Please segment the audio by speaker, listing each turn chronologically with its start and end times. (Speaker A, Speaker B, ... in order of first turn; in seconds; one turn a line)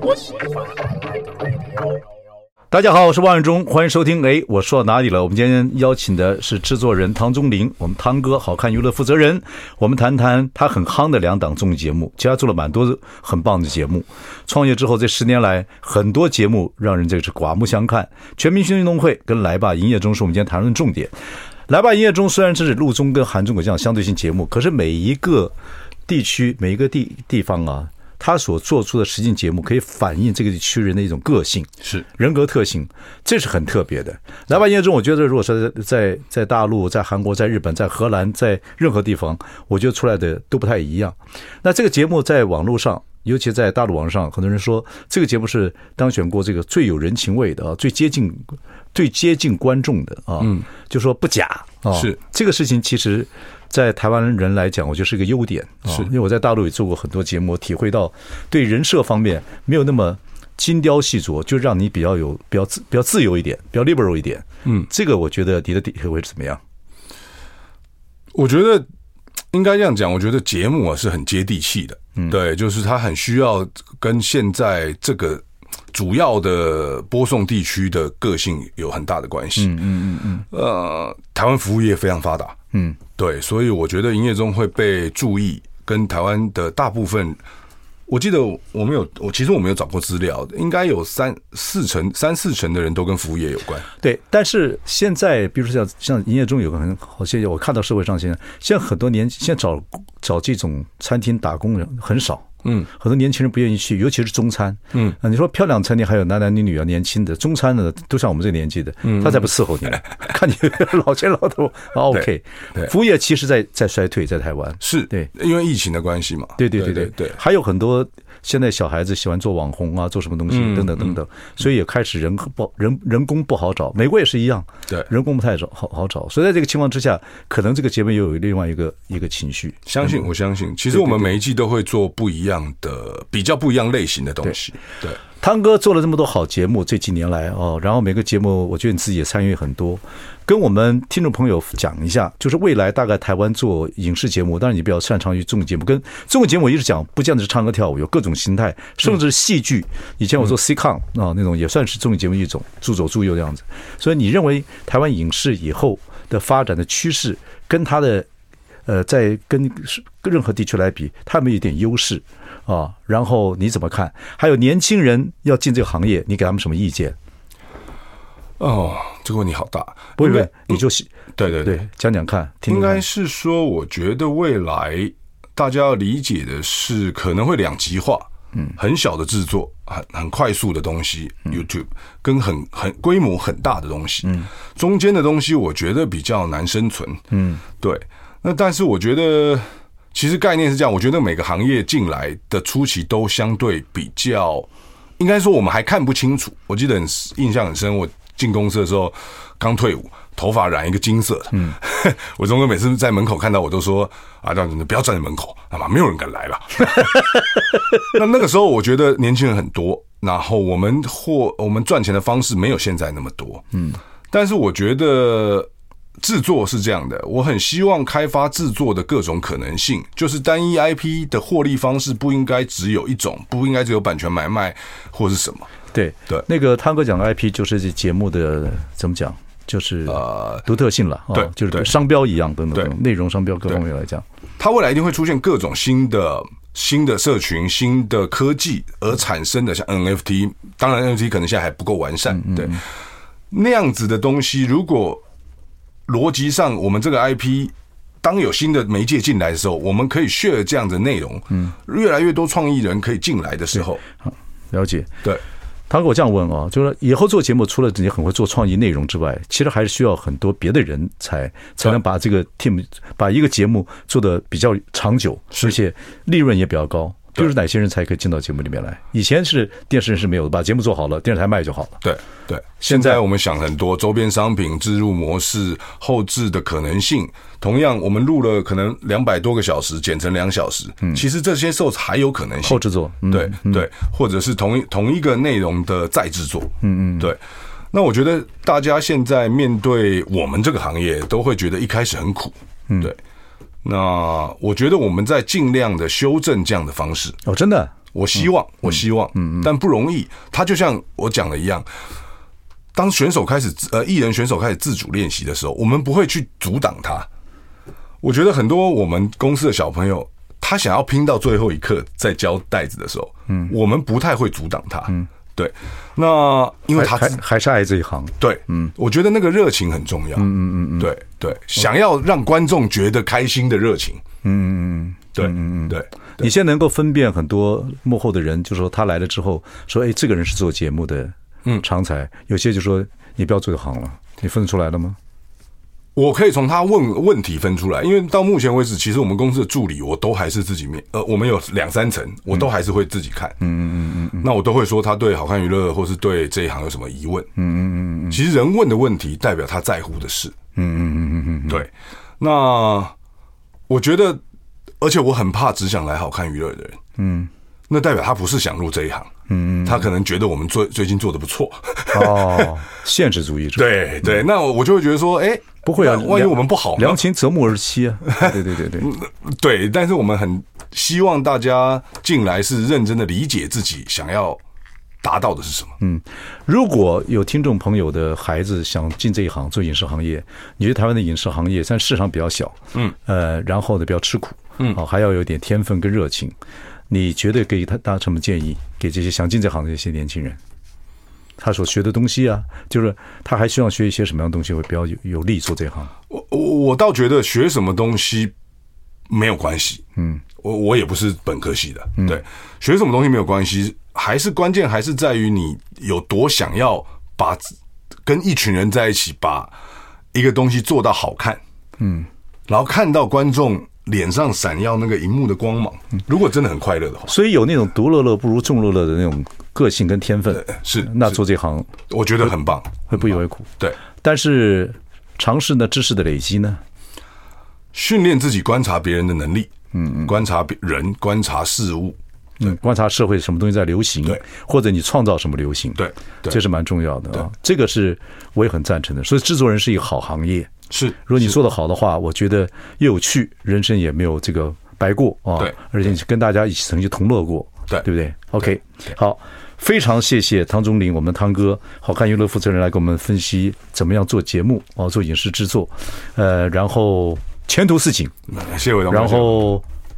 Speaker A: 2.7-21.1
Speaker A: 21.7-25.5
Speaker A: 26.1-66.6
Speaker B: 68.3-68.8
Speaker B: 69.5-79.8
Speaker A: 79.6-80.5
Speaker B: 80.5-82.5
Speaker A: 82.7-83.0
Speaker B: 83.2-87.4
Speaker B: 88.1-93.9
Speaker A: 94.0-115.3
Speaker B: 109.0-110.0
Speaker B: 114.8-117.4
Speaker A: 116.6-130.2
Speaker B: 120.5-121.1
Speaker B: 129.9-135.2
Speaker A: 130.9-131.3
Speaker A: 135.4-158.3
Speaker A: 158.8-167.1
Speaker B: 168.6-170.8
Speaker A: 170.2-173.0
Speaker B: 171.3-171.8
Speaker B: 172.7-187.2
Speaker A: 187.3-187.6
Speaker B: 187.8-207.5
Speaker B: 208.0-213.7
Speaker B: 214.3-225.7
Speaker A: 225.9-234.2
Speaker B: 230.1-230.6
Speaker B: 231.3-231.9
Speaker B: 234.6-242.8
Speaker A: 242.3-242.8
Speaker B: 243.5-245.2
Speaker B: 246.1-254.0
Speaker A: 254.3-255.1
Speaker A: 255.9-272.0
Speaker B: 272.0-287.4
Speaker A: 272.8-273.2
Speaker A: 282.6-283.9
Speaker A: 286.8-287.3
Speaker B: 287.9-293.1
Speaker B: 293.8-297.4
Speaker A: 297.4-297.9
Speaker B: 298.1-301.9
Speaker A: 299.3-299.7
Speaker B: 302.9-307.3
Speaker B: 308.2-317.4
Speaker A: 316.9-318.9
Speaker B: 318.4-320.5
Speaker A: 320.4-321.1
Speaker B: 321.0-324.2
Speaker A: 324.4-335.2
Speaker B: 325.4-326.1
Speaker B: 336.1-343.6
Speaker A: 343.6-344.5
Speaker B: 344.4-347.5
Speaker A: 347.6-348.4
Speaker B: 348.3-350.6
Speaker A: 350.8-351.9
Speaker B: 351.7-353.1
Speaker B: 353.9-354.4
Speaker B: 355.0-357.0
Speaker A: 357.2-357.5
Speaker B: 357.9-359.3
Speaker A: 359.5-360.1
Speaker B: 359.8-362.7
Speaker A: 362.1-364.3
Speaker B: 363.8-367.2
Speaker A: 365.8-369.1
Speaker B: 368.3-374.6
Speaker B: 375.2-375.9
Speaker A: 376.0-386.5
Speaker A: 387.1-390.6
Speaker A: 391.6-396.1
Speaker B: 396.3-398.5
Speaker B: 399.3-400.0
Speaker A: 400.2-400.4
Speaker B: 400.6-407.7
Speaker B: 408.2-409.7
Speaker B: 410.3-411.6
Speaker A: 412.0-412.3
Speaker B: 412.7-417.3
Speaker A: 417.3-422.5
Speaker B: 420.6-421.4
Speaker B: 422.1-424.0
Speaker A: 423.1-426.8
Speaker B: 427.9-429.7
Speaker A: 429.9-430.3
Speaker B: 430.2-432.2
Speaker A: 432.6-440.7
Speaker B: 436.0-436.6
Speaker B: 440.9-441.6
Speaker A: 441.2-458.3
Speaker B: 458.5-459.7
Speaker A: 459.1-459.8